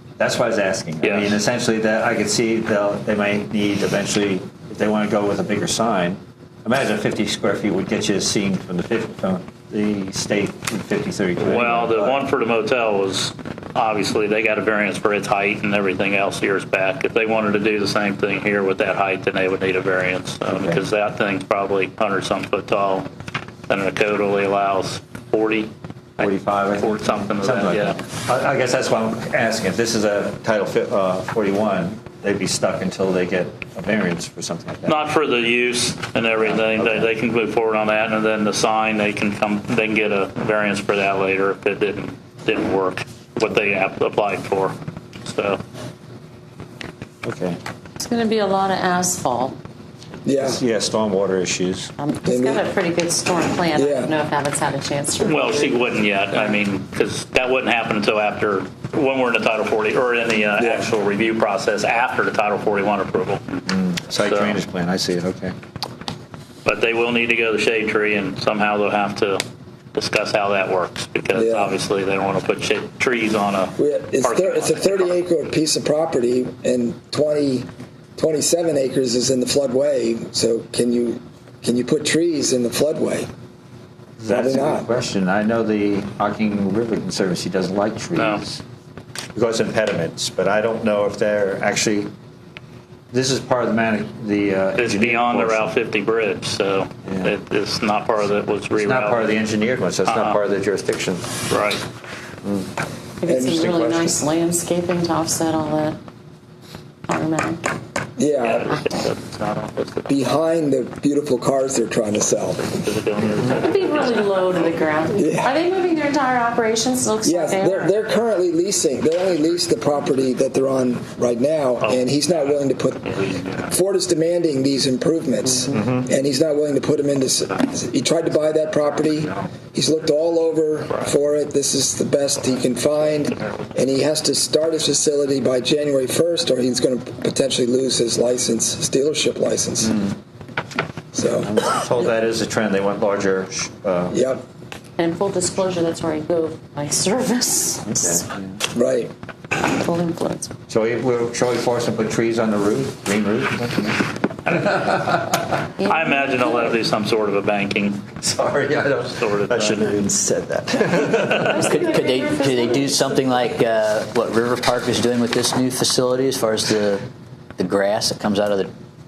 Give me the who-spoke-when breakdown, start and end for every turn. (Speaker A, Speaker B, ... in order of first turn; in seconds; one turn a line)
Speaker A: 0.2-12.2
Speaker B: 1.0-1.4
Speaker B: 11.4-23.1
Speaker A: 20.5-20.8
Speaker B: 23.7-28.0
Speaker A: 26.2-35.0
Speaker B: 34.9-45.6
Speaker A: 36.4-37.1
Speaker A: 47.2-47.6
Speaker C: 48.0-49.6
Speaker D: 50.2-50.6
Speaker A: 50.4-51.9
Speaker C: 52.0-55.8
Speaker D: 52.2-52.6
Speaker D: 53.7-54.1
Speaker B: 55.2-63.4
Speaker D: 60.6-60.9
Speaker A: 63.7-65.5
Speaker B: 64.2-64.6
Speaker B: 66.6-69.4
Speaker B: 69.9-75.1
Speaker D: 71.3-71.7
Speaker D: 73.8-83.3
Speaker A: 84.2-88.6
Speaker D: 84.2-84.9
Speaker B: 88.2-88.4
Speaker A: 89.3-92.1
Speaker A: 93.1-95.7
Speaker B: 94.8-99.3
Speaker A: 97.0-97.3
Speaker A: 98.8-101.3
Speaker B: 100.0-100.4
Speaker B: 101.5-101.8
Speaker A: 102.4-102.7
Speaker C: 103.2-106.0
Speaker D: 103.2-103.7
Speaker A: 103.5-104.1
Speaker C: 107.1-107.6
Speaker D: 108.2-108.8
Speaker B: 108.4-110.1
Speaker D: 110.0-112.8
Speaker B: 112.5-114.8
Speaker C: 113.5-117.9
Speaker D: 115.1-115.5
Speaker D: 117.2-140.1
Speaker B: 121.8-123.7
Speaker A: 125.7-126.0
Speaker B: 128.5-129.5
Speaker B: 132.6-133.7
Speaker D: 141.1-141.5
Speaker A: 141.4-144.2
Speaker D: 144.1-144.4
Speaker C: 145.0-148.3
Speaker A: 148.0-148.5
Speaker D: 148.7-149.1
Speaker C: 149.5-150.5
Speaker A: 150.7-154.0
Speaker B: 154.5-154.9
Speaker A: 154.7-155.1
Speaker B: 155.8-158.0
Speaker C: 155.8-156.6
Speaker A: 158.2-161.6
Speaker B: 159.2-159.9
Speaker B: 161.1-161.5
Speaker C: 161.3-163.5
Speaker E: 161.6-167.0
Speaker E: 167.6-168.7